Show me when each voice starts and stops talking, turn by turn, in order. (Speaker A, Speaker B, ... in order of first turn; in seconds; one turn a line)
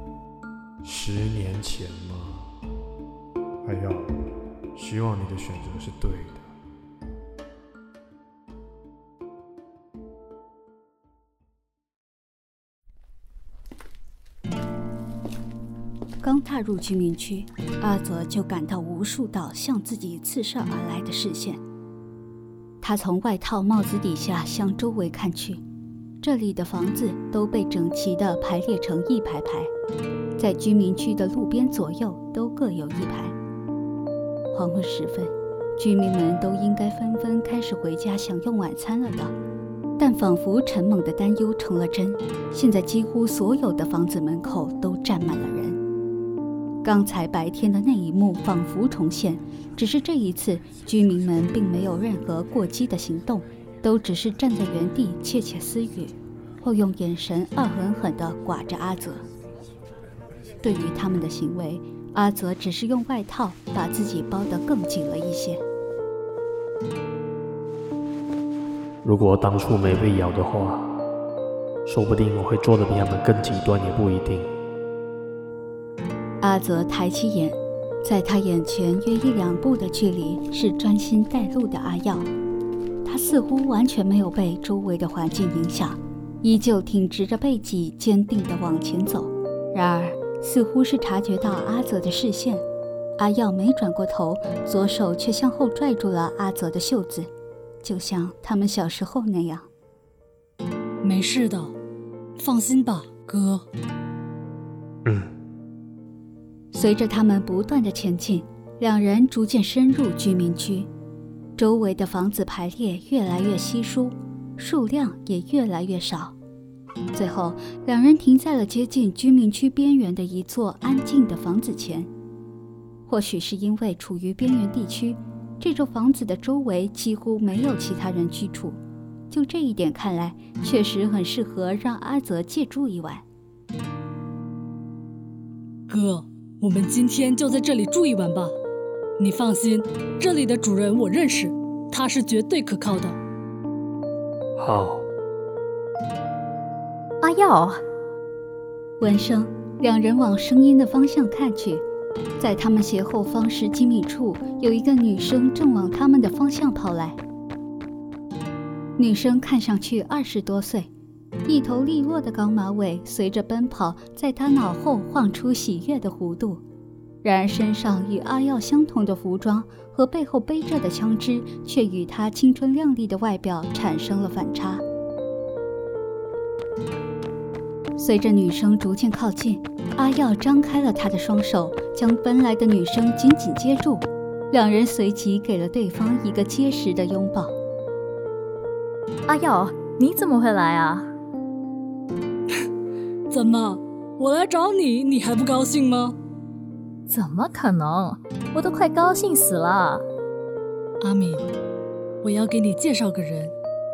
Speaker A: 0.8-2.5
Speaker A: 3.6-4.2
Speaker A: 4.8-6.5
Speaker B: 16.2-21.6
Speaker B: 22.8-25.6
Speaker B: 26.2-29.7
Speaker B: 30.4-33.4
Speaker B: 34.5-39.4
Speaker B: 40.0-45.8
Speaker B: 46.8-59.2
Speaker B: 60.6-65.6
Speaker C: 69.0-71.0
Speaker C: 71.8-74.5
Speaker B: 76.4-82.3
Speaker B: 83.0-92.6
Speaker B: 93.2-97.3
Speaker B: 97.8-99.7
Speaker D: 101.0-101.7
Speaker D: 102.4-103.7
Speaker B: 106.7-110.9
Speaker B: 111.6-116.4
Speaker B: 117.1-122.1
Speaker B: 123.1-128.8
Speaker B: 129.3-133.2
Speaker D: 135.9-138.6
Speaker D: 139.2-143.2
Speaker C: 144.6-145.1
Speaker E: 147.2-147.8
Speaker B: 149.0-151.8
Speaker B: 152.4-157.2
Speaker B: 159.0-160.9
Speaker B: 161.5-166.6
Speaker B: 167.2-174.8
Speaker B: 178.0-187.6
Speaker E: 189.3-191.1
Speaker D: 193.3-196.2
Speaker E: 197.1-200.1
Speaker D: 201.0-201.5
Speaker D: 202.2-203.5